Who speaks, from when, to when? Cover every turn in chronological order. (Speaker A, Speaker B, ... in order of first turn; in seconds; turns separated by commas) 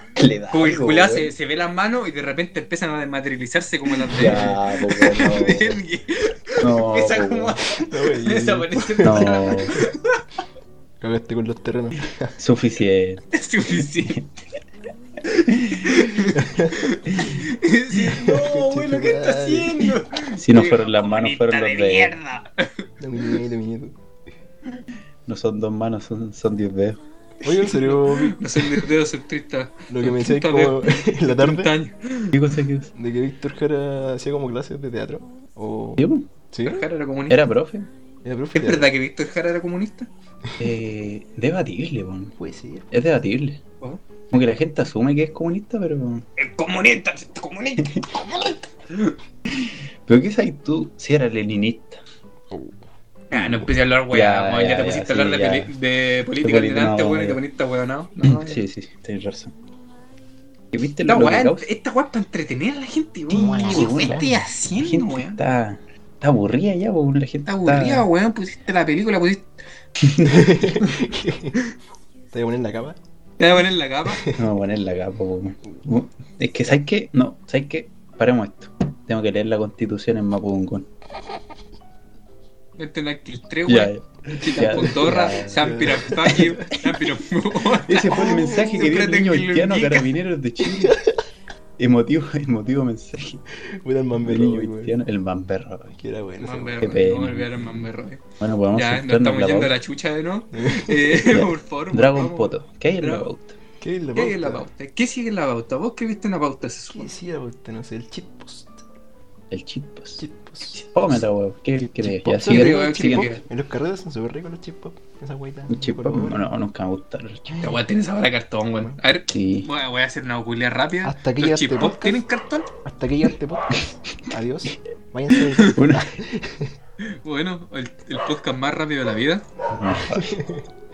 Speaker A: 0.2-1.3, Speaker B: 0.5-10.2, Speaker A: 4.1-5.8, Speaker C: 4.2-4.6, Speaker A: 6.6-7.6, Speaker C: 7.9-9.9, Speaker A: 9.0-9.8, Speaker C: 11.0-12.3, Speaker A: 12.4-13.2, Speaker B: 13.3-14.2, Speaker A: 14.0-14.3, Speaker A: 15.3-16.1, Speaker B: 15.8-23.4, Speaker C: 16.4-16.9, Speaker A: 17.1-17.4, Speaker C: 18.0-20.0, Speaker A: 20.3-22.2, Speaker C: 23.0-24.0, Speaker A: 25.3-27.0, Speaker C: 27.4-28.9, Speaker B: 27.5-32.3, Speaker C: 29.9-31.7, Speaker A: 32.3-32.9, Speaker C: 33.0-36.9, Speaker A: 36.0-36.3, Speaker B: 36.6-37.4, Speaker A: 37.3-37.9, Speaker C: 38.2-38.9, Speaker B: 38.5-40.1, Speaker A: 40.6-42.3, Speaker C: 42.4-42.9, Speaker A: 42.9-43.6, Speaker A: 44.3-46.3, Speaker B: 46.4-49.1, Speaker A: 49.6-52.0, Speaker C: 52.5-52.8, Speaker B: 53.3-58.6, Speaker A: 53.3-55.7, Speaker A: 56.4-57.4, Speaker A: 58.2-59.5, Speaker A: 60.7-61.7, Speaker B: 61.1-65.4, Speaker A: 63.3-68.1, Speaker C: 63.4-64.3, Speaker B: 67.5-69.5, Speaker A: 70.0-70.8, Speaker C: 70.3-71.6, Speaker C: 72.3-73.0, Speaker B: 73.4-74.3, Speaker C: 74.1-74.4, Speaker A: 74.3-80.9, Speaker B: 82.8-90.1, Speaker A: 83.7-85.9, Speaker C: 85.6-86.7, Speaker A: 87.8-91.0, Speaker C: 88.1-88.9, Speaker C: 90.8-91.1, Speaker A: 91.8-93.4, Speaker C: 93.7-95.0, Speaker A: 94.2-96.0, Speaker C: 96.0-97.0, Speaker B: 96.4-98.2, Speaker A: 96.8-97.5, Speaker A: 98.4-99.7, Speaker B: 98.7-103.3, Speaker C: 100.5-101.3, Speaker A: 101.3-103.6, Speaker C: 103.8-104.7, Speaker B: 104.2-107.1, Speaker C: 106.9-108.8, Speaker A: 109.5-113.3, Speaker C: 110.2-110.8, Speaker C: 112.0-116.5, Speaker B: 112.5-113.4, Speaker A: 115.7-117.8, Speaker B: 117.6-122.7, Speaker A: 119.3-119.7, Speaker C: 121.0-122.2, Speaker C: 122.8-126.7, Speaker A: 125.6-126.1, Speaker B: 127.0-129.5, Speaker A: 129.7-130.4, Speaker C: 130.1-130.7